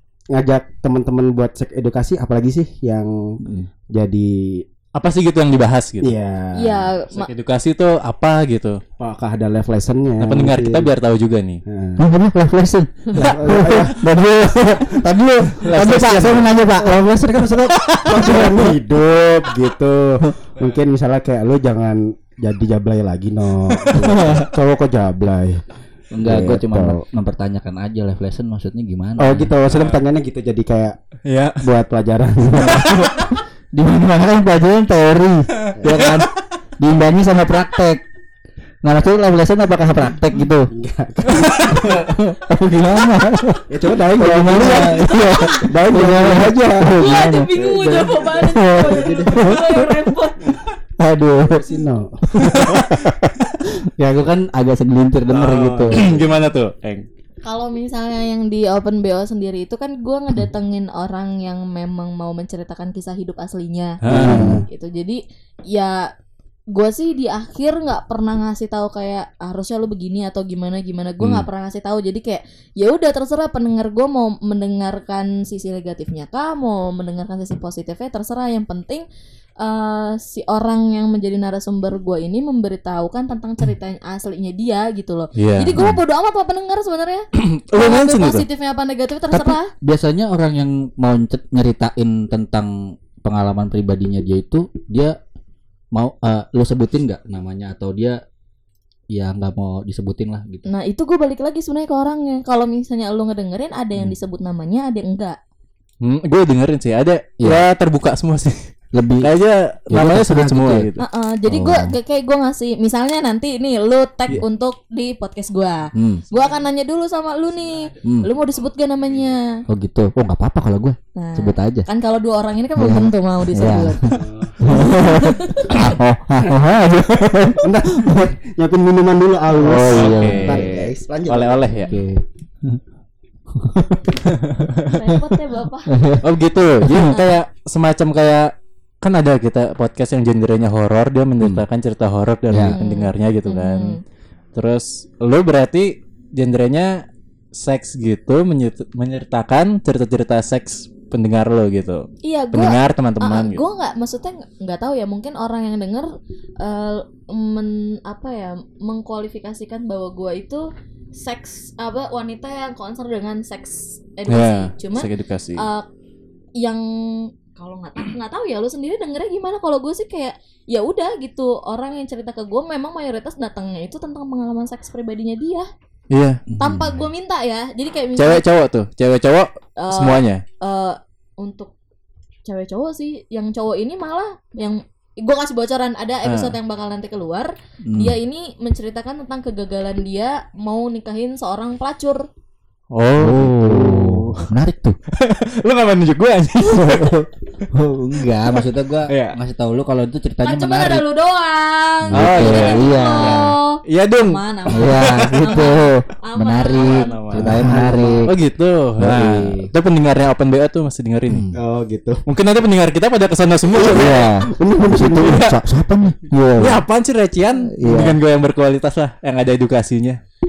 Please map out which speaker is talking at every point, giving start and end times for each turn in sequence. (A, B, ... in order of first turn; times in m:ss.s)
0:00.3-0:03.4 A
0:03.4-0:03.7 B
0:03.9-0:04.6 A
0:04.9-0:06.1 C
0:06.0-0:06.9 A
0:06.6-0:07.3 D
0:07.1-0:08.8 C
0:09.0-0:10.9 A
0:10.2-0:11.6 C
0:11.6-0:12.0 A
0:12.0-0:17.0 B
0:13.1-0:13.3 D
0:13.2-0:14.0 A
0:15.6-0:16.3 C
0:15.8-0:25.6 A
0:17.7-0:18.5 C
0:18.4-0:18.7 B
0:23.8-0:24.4 C
0:23.9-0:24.5 B
0:26.1-0:29.5 B
0:26.2-0:27.0 A
0:29.2-0:31.0 A
0:29.7-0:30.0 C
0:31.3-0:31.6 C
0:31.6-0:33.3 A
0:32.7-0:33.3 C
0:33.7-0:38.0 B
0:35.7-0:36.2 C
0:35.8-0:36.1 A
0:38.8-0:40.7 B
0:40.7-0:42.1 A
0:41.3-0:42.0 C
0:42.0-0:47.5 B
0:43.7-0:46.9 A
0:44.7-0:45.7 D
0:47.0-0:50.6 D
0:47.5-0:49.8 A
0:48.4-0:50.0 B
0:51.0-0:51.7 B
0:51.6-0:52.7 A
0:52.3-0:56.1 B
0:52.5-0:52.9 C
0:55.3-0:57.0 C
0:55.4-0:56.3 A
0:57.4-1:04.0 D
1:04.0-1:04.5 C
1:04.1-1:04.6 A
1:04.1-1:04.6 B
1:04.7-1:06.1 D
1:06.7-1:19.0 D
1:19.6-1:29.7 D
1:25.4-1:25.8 C
1:27.3-1:28.4 C
1:29.3-1:35.2 B
1:35.9-1:38.2 B
1:39.1-1:40.6 B
1:40.6-1:45.4 D
1:46.0-1:48.6 C
1:48.9-1:49.3 B
1:49.2-1:51.0 C
1:49.9-1:50.9 B
1:51.0-1:59.4 D
1:51.4-1:52.0 B
1:56.0-1:56.2 B
1:58.0-1:58.3 B
1:59.7-2:01.9 B
2:01.2-2:04.1 D
2:02.8-2:08.3 B
2:04.1-2:04.8 A
2:04.6-2:05.9 D
2:07.6-2:11.8 A
2:09.5-2:10.9 B
2:09.8-2:11.9 C
2:10.1-2:10.4 D
2:11.7-2:12.8 B
2:13.5-2:16.3 B
2:14.3-2:14.8 C
2:14.8-2:15.9 D
2:16.2-2:24.0 C
2:16.8-2:17.1 B
2:17.1-2:17.4 D
2:22.5-2:22.8 B
2:22.7-2:24.0 D
2:24.5-2:27.0 C
2:27.5-2:33.6 C
2:32.2-2:45.8 D
2:44.3-2:45.6 C
2:46.6-2:55.7 D
2:56.1-2:56.4 C
2:56.5-2:57.0 B
2:56.6-2:58.4 D
2:58.2-3:00.4 C
2:59.8-3:01.7 D
3:02.4-3:12.2 D
3:06.2-3:06.5 C
3:07.9-3:08.2 B
3:12.9-3:13.6 C
3:13.2-3:15.0 B
3:13.6-3:14.4 A
3:15.1-3:17.3 C
3:16.7-3:17.2 D
3:17.7-3:21.0 B
3:19.1-3:19.4 C
3:20.4-3:27.2 D
3:22.1-3:23.5 B
3:22.1-3:25.4 C
3:24.7-3:28.3 B
3:26.8-3:31.5 C
3:27.3-3:28.3 A
3:29.0-3:29.7 B
3:31.3-3:31.6 B
3:31.5-3:32.2 A
3:32.3-3:34.3 C
3:33.7-3:35.4 A
3:33.8-3:36.8 B
3:35.1-3:35.6 C
3:36.6-3:40.2 C
3:37.7-3:38.2 B